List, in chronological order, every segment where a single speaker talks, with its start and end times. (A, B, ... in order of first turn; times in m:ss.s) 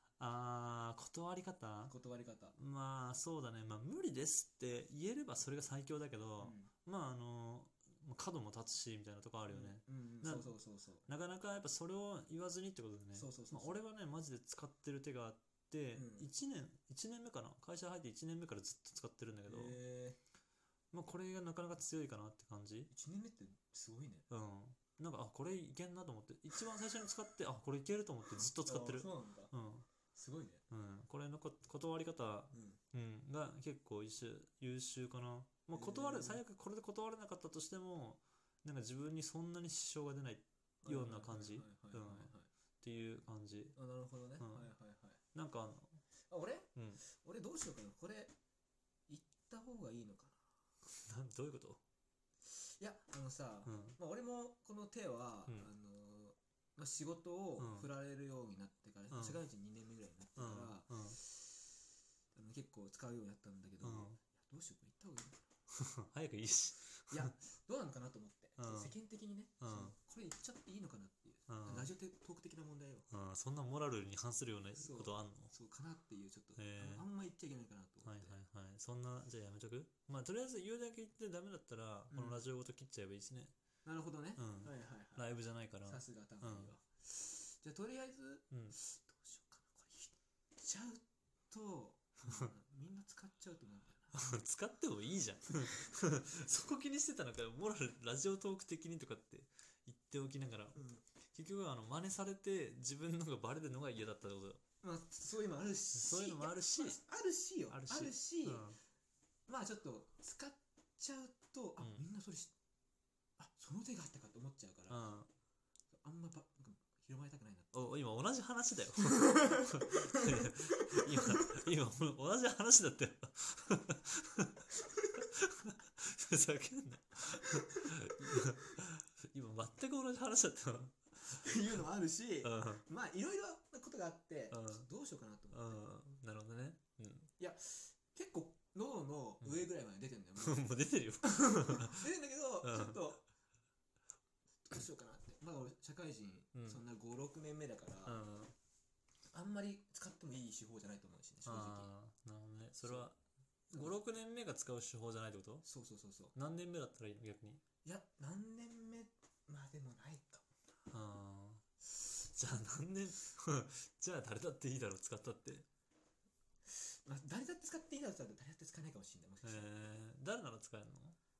0:00.2-0:01.9 A
0:01.9-0:02.6 B
0:02.6-0:10.6 A
0:06.4-0:06.7 B
0:09.5-0:11.1 B
0:11.1-0:19.8 A
0:13.2-0:13.8 B
0:16.0-0:16.3 B
0:19.5-0:20.2 B
0:20.9-0:22.9 A
0:22.9-0:24.3 B
0:24.3-0:29.9 A
0:28.4-0:29.5 B
0:30.1-0:30.6 B
0:30.7-0:43.8 A
0:32.5-0:32.8 B
0:35.7-0:36.4 B
0:40.8-0:42.5 B
0:43.8-0:45.2 B
0:44.4-0:44.7 A
0:45.3-0:46.0 A
0:46.3-0:48.3 B
0:46.8-0:47.0 A
0:49.1-0:50.4 B
0:50.9-0:51.8 A
0:52.5-1:01.6 B
0:53.7-0:54.0 A
0:57.6-0:57.9 A
0:59.1-0:59.4 A
1:00.4-1:01.2 A
1:02.4-1:05.5 B
1:03.8-1:04.2 A
1:05.7-1:07.3 A
1:07.1-1:13.1 B
1:08.6-1:08.9 A
1:09.6-1:10.0 A
1:11.5-1:11.9 A
1:13.1-1:15.5 A
1:14.8-1:18.4 B
1:16.6-1:17.1 A
1:18.0-1:23.5 A
1:22.1-1:22.4 B
1:23.8-1:25.3 B
1:24.4-1:26.7 A
1:25.8-1:34.3 B
1:28.5-1:28.8 A
1:34.1-1:40.8 A
1:40.8-1:41.0 B
1:41.3-1:44.6 A
1:44.8-1:48.7 B
1:45.9-1:47.0 A
1:47.7-1:48.8 A
1:49.5-1:52.5 B
1:51.8-1:52.1 A
1:53.4-1:55.0 B
1:54.9-1:55.3 A
1:55.9-1:57.9 B
1:57.7-2:04.6 A
1:59.4-2:01.5 B
2:05.2-2:11.4 A
2:07.4-2:08.7 B
2:11.2-2:15.9 B
2:12.4-2:12.8 A
2:14.5-2:14.9 A
2:15.5-2:17.3 A
2:17.4-2:23.2 B
2:19.4-2:19.7 A
2:20.4-2:22.1 A
2:22.6-2:23.1 A
2:24.7-2:28.2 B
2:26.5-2:26.8 A
2:28.1-2:28.5 A
2:29.3-2:31.9 B
2:31.4-2:33.2 A
2:32.8-2:33.1 B
2:33.7-2:35.6 A
2:35.6-2:36.3 B
2:36.4-2:37.6 A
2:37.8-2:40.5 B
2:40.9-2:41.6 A
2:42.2-2:45.7 A
2:46.7-2:49.7 B
2:49.4-2:51.2 A